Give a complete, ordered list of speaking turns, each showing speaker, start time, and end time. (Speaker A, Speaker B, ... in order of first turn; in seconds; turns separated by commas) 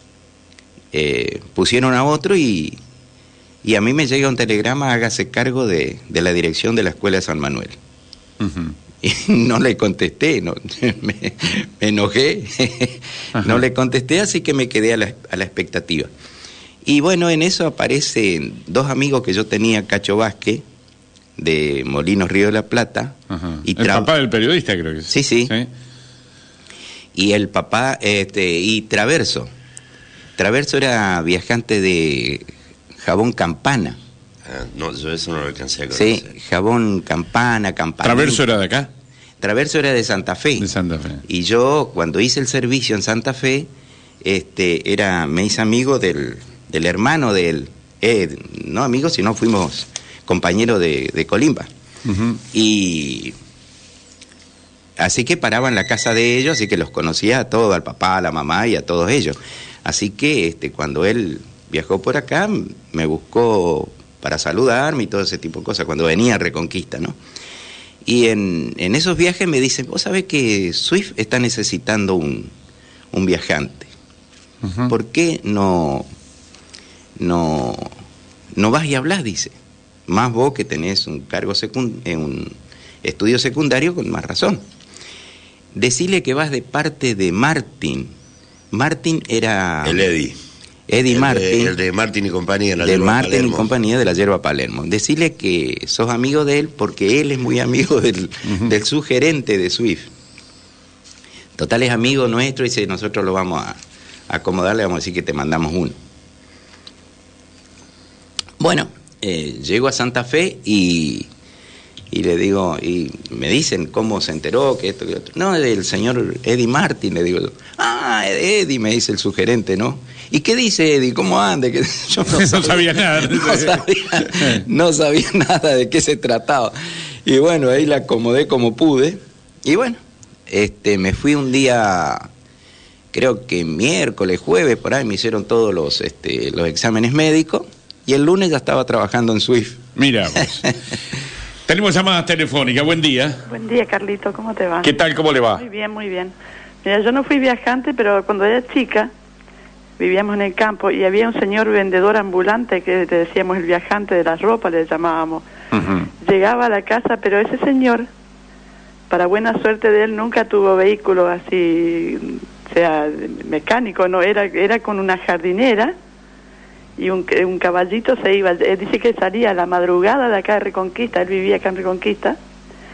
Speaker A: 0.9-2.8, Speaker A: 3.6-7.8, Speaker B: 8.4-8.8, Speaker A: 9.0-16.1, Speaker A: 16.8-20.6, Speaker A: 21.4-24.1, Speaker B: 23.3-25.7, Speaker A: 25.1-25.5, Speaker A: 27.1-29.5, Speaker A: 30.4-34.0, Speaker C: 34.5-36.3, Speaker A: 35.9-38.4, Speaker B: 38.0-38.9, Speaker A: 39.4-40.7, Speaker B: 40.6-41.2, Speaker A: 41.2-43.7, Speaker A: 44.2-51.7, Speaker B: 52.0-52.4, Speaker A: 52.5-53.4, Speaker A: 55.0-67.2, Speaker A: 68.0-72.5, Speaker A: 73.1-73.9, Speaker B: 74.6-74.9, Speaker A: 74.9-76.1, Speaker A: 77.2-77.9, Speaker A: 78.5-79.5, Speaker A: 80.1-84.6, Speaker A: 85.7-88.1, Speaker A: 88.7-90.1, Speaker C: 89.8-90.4, Speaker A: 90.9-91.8, Speaker C: 91.1-93.7, Speaker A: 92.8-100.1, Speaker A: 101.6-103.8, Speaker A: 104.3-106.0, Speaker A: 108.6-111.3, Speaker A: 112.1-132.3, Speaker B: 122.3-124.6, Speaker A: 133.1-139.8, Speaker B: 140.0-140.7, Speaker B: 141.7-143.4, Speaker D: 143.5-144.9, Speaker B: 144.8-145.6, Speaker D: 145.6-146.3, Speaker D: 146.8-149.1, Speaker D: 150.0-155.4, Speaker B: 155.7-156.1, Speaker D: 156.2-158.1, Speaker D: 159.1-165.9, Speaker D: 167.0-172.4